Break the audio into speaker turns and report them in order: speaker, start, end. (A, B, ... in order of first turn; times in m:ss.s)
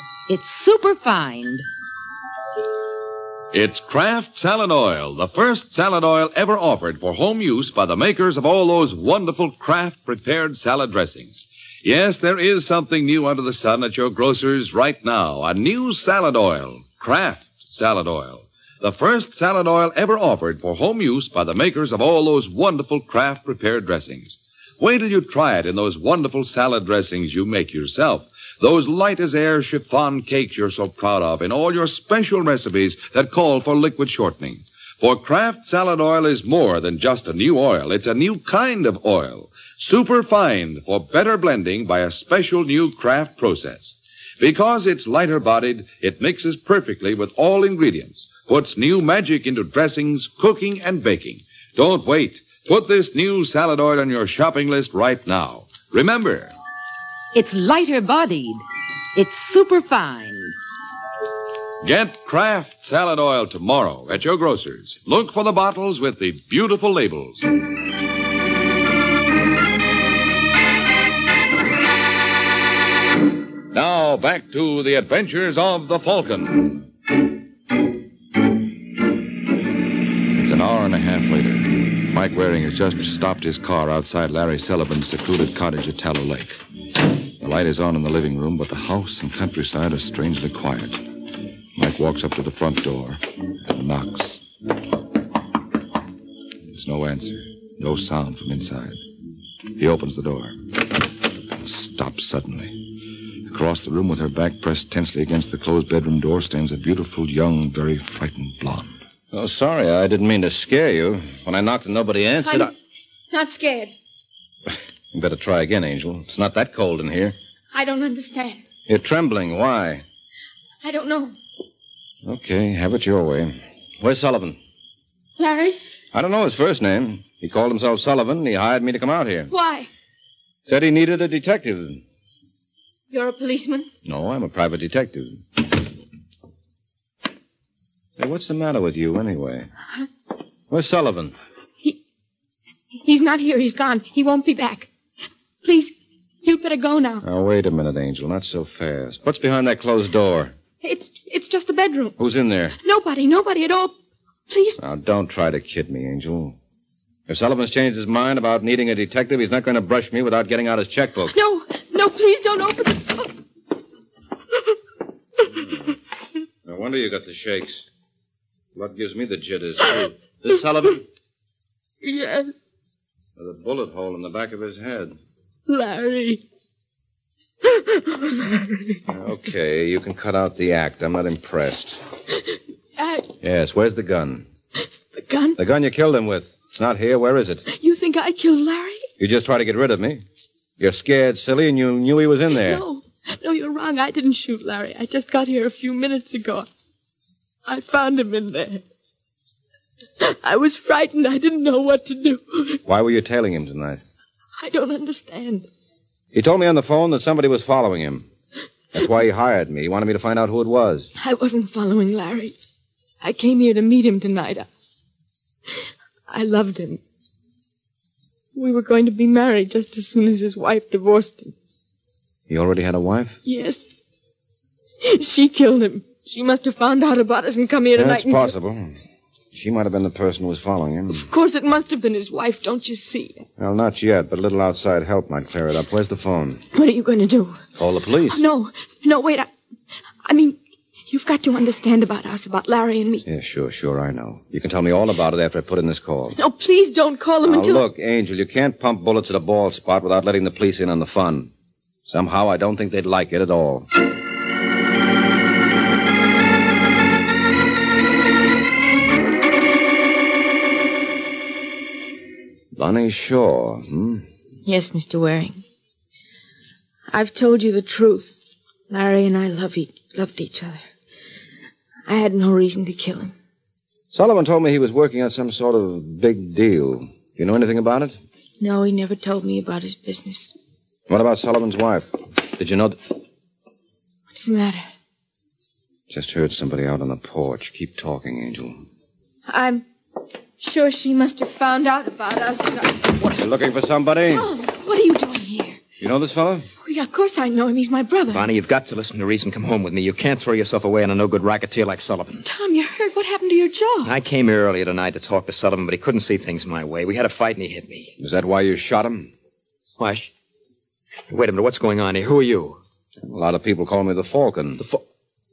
0:00.3-0:01.6 A
0:03.5-0:56.5 B
0:57.3-0:58.6 A
0:59.1-1:00.5 A
1:01.8-1:07.5 B
1:13.7-1:16.7 B
1:31.8-1:32.3 C
1:33.8-1:34.1 C
1:36.8-1:38.8 C
1:39.8-1:40.4 C
1:41.6-1:42.7 C
1:43.5-1:46.5 C
1:47.1-1:52.7 C
1:52.4-1:52.7 D
1:53.3-1:53.9 D
1:55.1-1:57.4 C
1:57.7-1:58.6 D
1:58.9-2:00.0 C
2:00.8-2:01.4 D
2:02.2-2:04.6 C
2:05.4-2:05.8 D
2:06.1-2:09.5 C
2:09.5-2:09.9 D
2:10.7-2:12.0 C
2:13.1-2:13.9 D
2:14.0-2:15.4 C
2:18.2-2:19.7 C
2:20.7-2:21.3 C
2:23.0-2:24.9 D
2:25.6-2:27.2 D
2:27.2-2:30.5 C
2:30.8-2:32.2 D
2:32.2-2:32.8 C
2:32.8-2:33.9 D
2:34.5-2:34.8 D
2:34.8-2:36.6 C
2:37.3-2:41.3 C
2:41.3-2:43.3 D
2:46.6-2:47.8 C
2:48.7-2:51.0 C
2:52.0-2:52.5 D
2:53.4-2:55.2 C
2:55.7-2:56.4 D
2:57.6-2:59.0 D
2:59.1-3:02.0 C
3:03.0-3:03.3 D
3:03.4-3:04.4 C
3:05.1-3:05.6 D
3:05.6-3:07.6 C
3:07.7-3:09.1 D
3:09.2-3:10.2 C
3:10.8-3:12.8 C
3:12.5-3:16.7 D
3:17.6-3:18.8 D
3:20.2-3:22.8 D
3:22.8-3:24.0 C
3:24.6-3:25.7 D
3:26.3-3:28.3 C
3:28.9-3:31.1 C
3:31.2-3:32.6 D
3:33.2-3:34.7 D
3:36.3-3:37.0 D
3:38.5-3:41.5 D
3:42.5-3:43.4 C
3:43.4-3:43.9 D
3:45.0-3:48.5 D
3:47.9-3:48.9 C
3:49.5-3:51.2 C
3:51.1-3:53.5 D
3:53.6-3:56.6 C
3:56.7-3:57.6 D
3:57.8-3:58.4 C
3:58.2-3:59.5 D
4:00.2-4:03.2 D
4:03.2-4:06.4 C
4:06.3-4:07.8 D
4:07.4-4:11.5 C
4:12.1-4:13.9 C
4:22.7-4:24.3 C
4:24.6-4:25.6 D
4:27.1-4:30.8 D
4:32.1-4:33.3 D
4:34.1-4:38.2 C
4:38.6-4:40.5 D
4:41.1-4:43.0 C
4:44.3-4:44.8 D
4:46.1-4:48.8 C
4:49.5-4:49.8 D
4:50.6-4:53.1 D
4:53.2-4:53.5 E
4:53.4-4:54.5 C
4:54.2-4:55.8 D
4:56.0-4:56.7 C
4:56.8-4:58.5 D
4:58.3-5:02.4 E
5:02.4-5:04.2 D
5:04.0-5:08.1 E
5:08.2-5:09.3 C
5:10.0-5:10.3 E
5:11.3-5:12.8 E
5:13.2-5:14.8 C